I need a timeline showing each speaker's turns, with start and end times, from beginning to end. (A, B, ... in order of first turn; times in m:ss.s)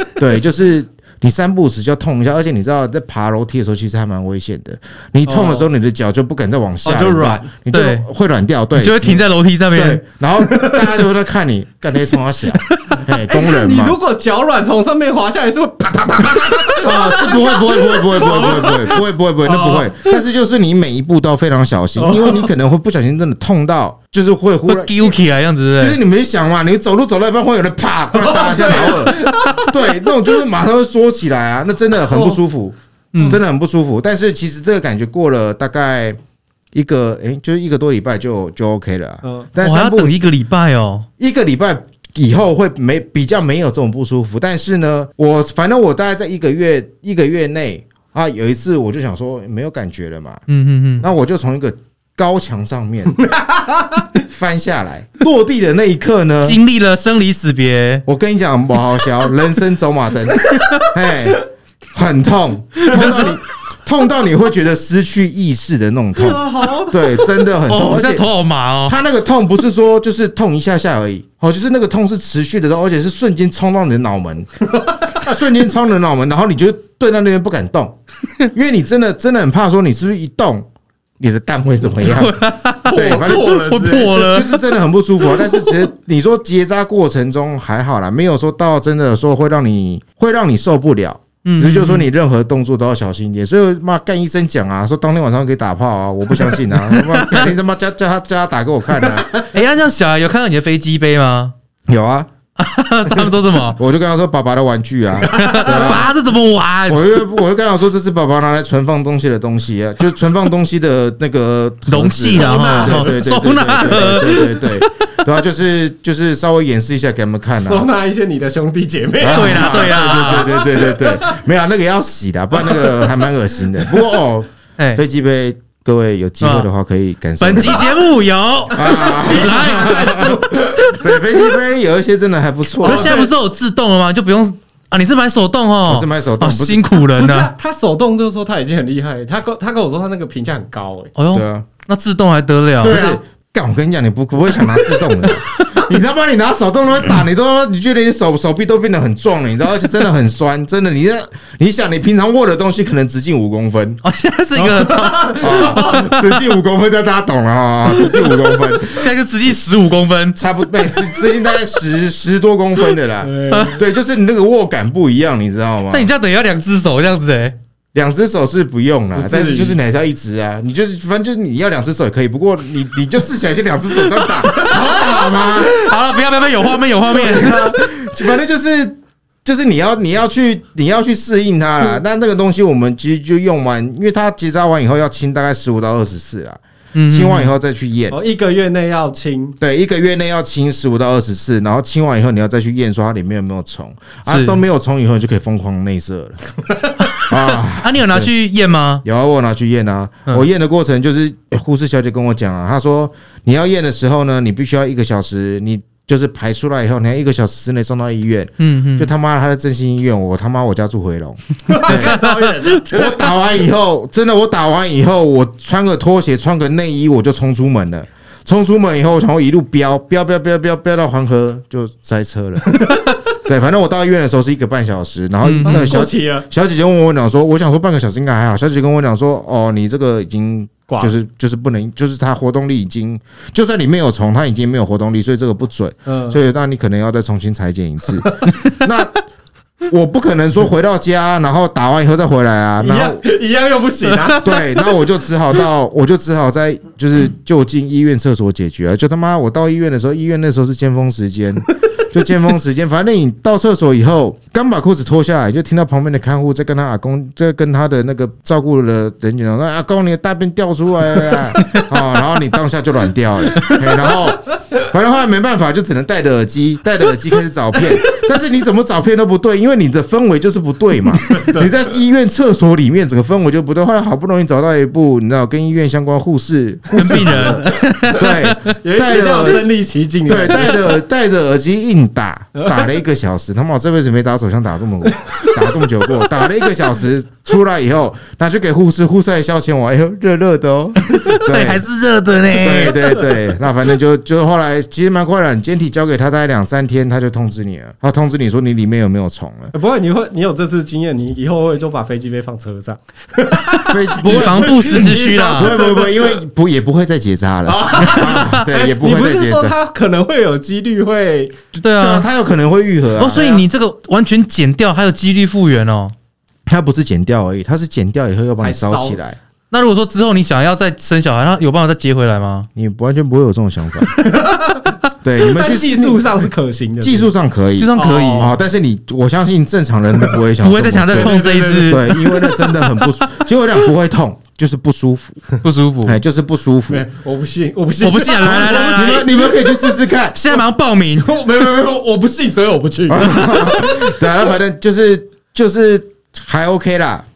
0:00.2-0:14.0 A
0:05.2-0:05.7 B
0:06.8-0:07.5 B
0:07.7-0:08.0 C
0:08.7-0:10.0 C
0:10.4-0:10.8 B
0:13.1-0:20.0 B
0:16.8-0:25.2 A
0:22.0-0:22.5 B
0:24.7-0:26.0 C
0:25.8-0:36.2 A
0:28.1-0:29.7 B
0:32.1-0:32.4 B
0:33.1-0:33.4 C
0:36.7-0:40.2 A
0:39.2-0:39.5 B
0:39.6-0:41.0 C
0:41.2-0:50.4 A
0:50.5-0:51.0 C
0:51.0-0:53.2 A
0:53.2-0:54.0 B
0:54.2-0:56.6 A
0:56.4-0:58.0 C
0:58.0-1:08.2 A
1:02.8-1:03.2 C
1:06.2-1:07.2 B
1:07.7-1:09.0 C
1:08.8-1:14.5 A
1:14.7-1:15.3 B
1:15.2-1:18.0 A
1:18.5-1:20.7 A
1:21.2-1:23.6 A
1:22.0-1:24.7 C
1:22.8-1:24.3 B
1:24.1-1:39.4 A
1:31.4-1:32.1 C
1:36.5-1:37.5 C
1:39.5-1:41.5 C
1:41.9-1:42.3 A
1:42.6-1:43.8 C
1:43.7-1:46.1 A
1:45.2-1:46.1 B
1:45.3-1:47.1 C
1:46.9-1:57.9 A
1:51.9-1:55.0 C
1:52.4-1:53.2 B
1:57.6-2:01.4 B
1:59.2-2:07.9 A
1:59.2-2:00.5 C
2:02.6-2:03.1 B
2:06.4-2:06.7 C
2:07.4-2:10.4 C
2:08.7-2:13.1 A
2:08.8-2:11.0 B
2:12.8-2:13.3 B
2:12.8-2:17.5 C
2:15.8-2:16.9 A
2:17.0-2:21.1 B
2:21.2-2:23.0 C
2:21.3-2:21.7 A
2:22.8-2:34.0 A
2:22.8-2:23.2 B
2:34.0-2:36.4 C
2:34.5-2:36.1 B
2:35.4-2:39.1 A
2:38.0-2:40.4 C
2:40.3-2:46.1 A
2:43.2-2:43.8 B
2:45.9-2:47.6 C
2:47.9-2:55.9 A
2:49.1-2:49.8 B
2:54.2-2:57.9 C
2:57.1-3:08.2 A
3:06.9-3:07.5 C
3:08.1-3:09.6 B
3:09.6-3:16.4 A
3:14.3-3:14.6 C
3:17.2-3:19.0 C
3:17.3-3:18.3 A
3:19.0-3:32.3 A
3:28.6-3:29.1 C
3:31.6-3:33.2 B
3:31.9-3:32.5 C
3:32.8-3:59.2 A
3:42.7-3:43.1 B
3:45.4-3:45.9 C
3:45.6-3:46.5 B
3:50.9-3:51.1 B
3:56.0-3:56.4 B
3:59.8-4:03.2 A
4:02.8-4:04.6 B
4:04.1-4:04.4 C
4:04.4-4:39.7 A
4:23.6-4:24.2 B
4:31.2-4:31.7 B
4:36.9-4:38.7 C
4:37.4-4:41.0 B
4:40.2-4:51.8 A
4:42.5-4:42.8 B
4:51.0-4:53.4 C
4:52.5-4:59.7 A
4:59.7-5:06.4 B
5:03.9-5:09.7 A
5:04.2-5:05.8 C
5:07.6-5:11.6 B
5:11.8-5:12.3 C
5:12.0-5:13.6 A
5:13.2-5:16.1 C
5:16.7-5:19.4 A
5:18.6-5:19.2 B
5:19.7-5:22.7 C
5:22.8-5:24.3 A
5:24.1-5:27.3 B
5:25.2-5:26.5 A
5:27.0-5:31.4 A
5:27.8-5:28.5 C
5:27.9-5:28.6 B
5:30.6-5:32.9 C
5:31.1-5:32.1 B
5:31.9-5:35.4 A
5:35.6-5:36.2 C
5:36.0-5:37.0 A
5:36.9-5:39.9 B
5:38.0-5:39.2 C
5:38.4-5:40.4 A
5:40.3-5:41.3 C
5:41.2-5:44.2 B
5:43.1-5:47.2 A